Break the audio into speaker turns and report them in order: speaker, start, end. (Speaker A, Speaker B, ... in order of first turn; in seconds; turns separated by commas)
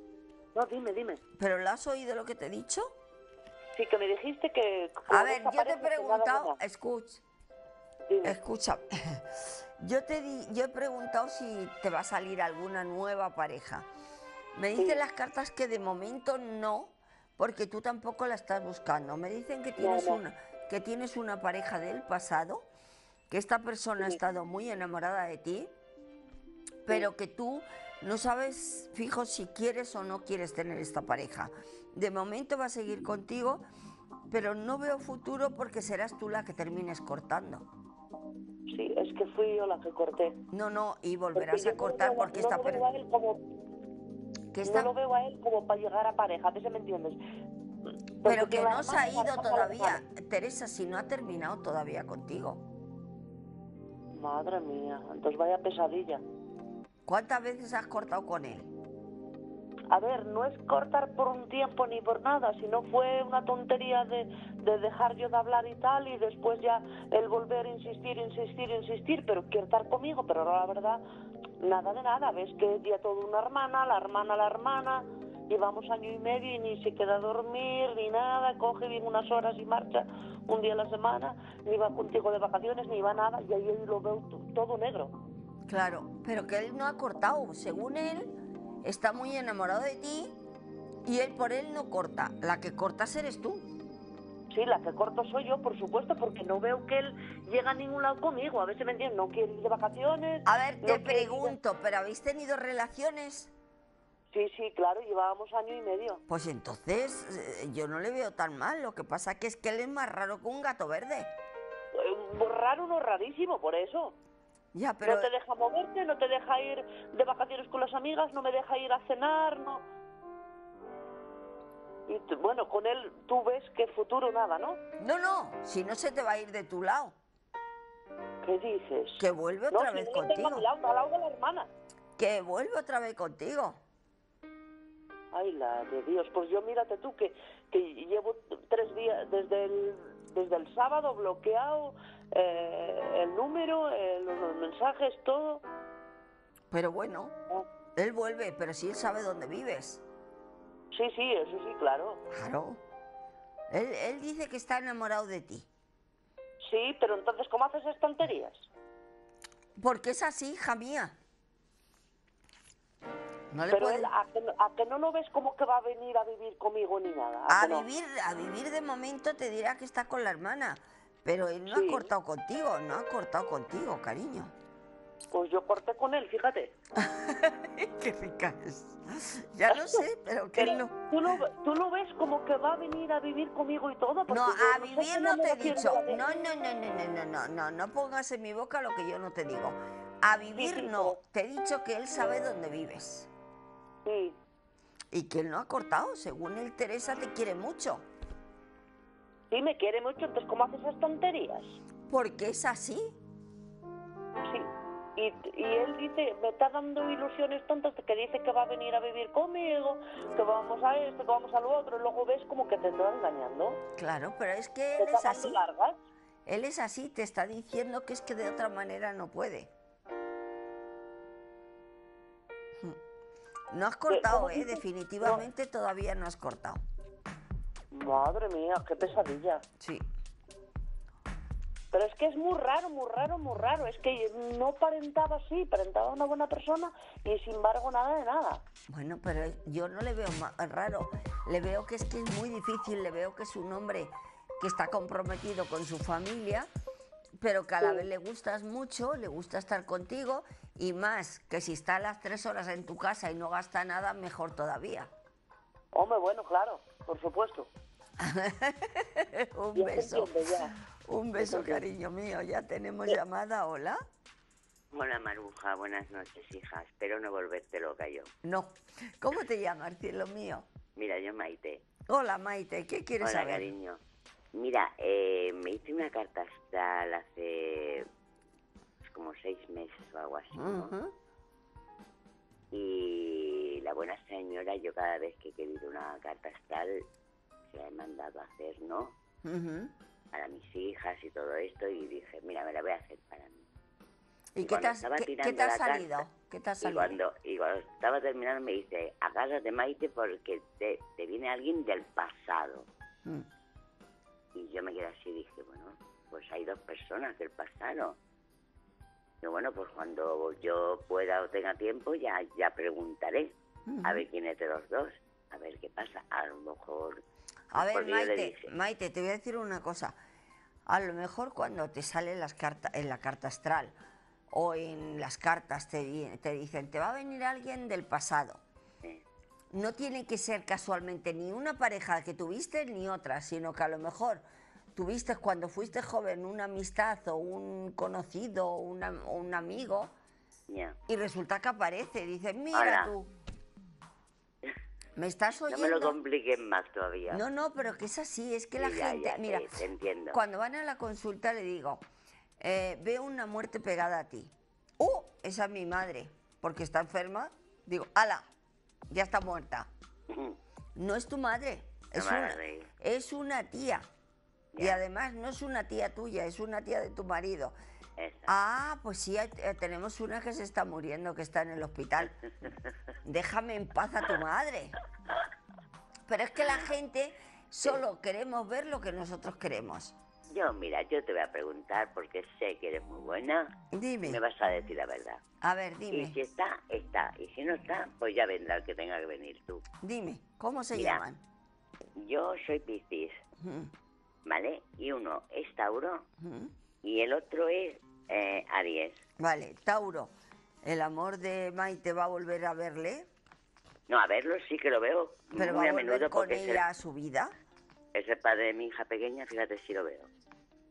Speaker A: 0.6-1.2, Speaker B: 1.4-3.0, Speaker A: 3.8-6.5, Speaker B: 5.1-7.2, Speaker B: 8.2-13.9, Speaker B: 14.5-22.7, Speaker B: 23.3-25.7, Speaker B: 26.9-33.6, Speaker B: 34.3-37.6, Speaker A: 38.7-40.4, Speaker B: 40.5-42.9, Speaker A: 41.4-43.4, Speaker B: 44.5-45.0, Speaker A: 44.6-47.2, Speaker A: 48.2-50.0, Speaker B: 48.2-52.6, Speaker A: 54.1-56.2, Speaker B: 57.1-58.7, Speaker A: 59.9-71.0, Speaker A: 71.6-85.1, Speaker B: 85.7-90.4, Speaker B: 91.0-93.7, Speaker A: 94.5-101.5, Speaker B: 100.5-103.5, Speaker A: 104.3-106.2, Speaker B: 106.3-111.3, Speaker A: 111.9-114.2, Speaker B: 114.7-115.3, Speaker A: 115.0-119.8, Speaker A: 122.1-124.8, Speaker B: 125.0-127.2, Speaker A: 128.4-131.7, Speaker B: 129.2-130.7, Speaker B: 132.2-133.8, Speaker A: 135.3-145.6, Speaker B: 146.7-147.3, Speaker B: 148.0-150.0, Speaker A: 150.9-152.2, Speaker B: 152.3-152.8, Speaker B: 153.7-155.7, Speaker A: 156.6-158.7, Speaker B: 159.8-161.2, Speaker B: 163.5-164.1, Speaker A: 163.7-167.8, Speaker B: 167.5-174.5, Speaker A: 171.7-172.1, Speaker A: 175.3-176.7, Speaker B: 177.0-181.0, Speaker A: 179.7-180.0, Speaker A: 180.6-186.2, Speaker B: 184.3-193.3, Speaker A: 190.6-191.2, Speaker A: 194.1-194.4, Speaker B: 195.1-198.1, Speaker A: 199.5-201.8, Speaker B: 202.1-203.2, Speaker A: 204.4-213.8, Speaker B: 214.0-215.6, Speaker A: 215.0-216.0, Speaker B: 216.5-219.7, Speaker B: 223.7-226.8, Speaker A: 224.1-225.4, Speaker A: 227.9-229.6, Speaker B: 229.8-230.1, Speaker A: 231.9-238.6, Speaker B: 238.9-246.7, Speaker B: 247.4-255.1, Speaker A: 255.9-257.7, Speaker B: 258.2-260.4, Speaker A: 259.8-260.7, Speaker B: 261.1-264.0, Speaker A: 261.4-261.8, Speaker C: 264.9-268.3, Speaker B: 268.4-270.7, Speaker C: 271.0-271.8, Speaker B: 272.1-273.7, Speaker C: 273.2-274.0, Speaker C: 274.6-278.1, Speaker C: 279.0-280.9, Speaker B: 280.5-281.1, Speaker C: 282.7-287.1, Speaker C: 287.7-289.1, Speaker B: 289.4-289.9, Speaker C: 290.3-293.6, Speaker B: 294.6-297.2, Speaker C: 294.6-296.2, Speaker C: 296.8-302.9, Speaker C: 304.6-308.2, Speaker C: 309.4-317.2, Speaker B: 313.9-314.3, Speaker B: 317.7-320.2, Speaker C: 317.7-318.7, Speaker B: 320.9-324.0, Speaker B: 324.5-328.6, Speaker B: 329.7-334.4, Speaker B: 334.9-340.1, Speaker C: 340.7-341.0, Speaker B: 341.1-343.3, Speaker C: 342.7-343.1, Speaker B: 345.2-346.2, Speaker C: 345.7-347.4, Speaker B: 347.3-349.7, Speaker C: 348.8-350.4, Speaker B: 350.3-352.0, Speaker B: 352.6-358.5, Speaker B: 359.1-359.9, Speaker C: 360.3-360.6, Speaker B: 361.0-364.1, Speaker C: 362.1-362.9, Speaker C: 364.7-365.0, Speaker B: 364.8-367.8, Speaker C: 368.2-368.5, Speaker B: 368.5-372.3, Speaker B: 373.2-374.9, Speaker B: 376.3-380.2, Speaker C: 380.5-383.7, Speaker B: 383.9-384.4, Speaker C: 384.2-385.4, Speaker B: 385.6-386.4, Speaker C: 386.1-389.8, Speaker B: 390.0-391.4, Speaker C: 390.9-391.2, Speaker C: 392.2-393.4, Speaker B: 393.6-393.9, Speaker C: 394.5-396.2, Speaker B: 396.4-396.7, Speaker C: 397.0-399.2, Speaker B: 399.4-400.3, Speaker B: 400.8-403.3, Speaker C: 404.1-406.9, Speaker B: 405.6-407.5, Speaker C: 408.1-410.3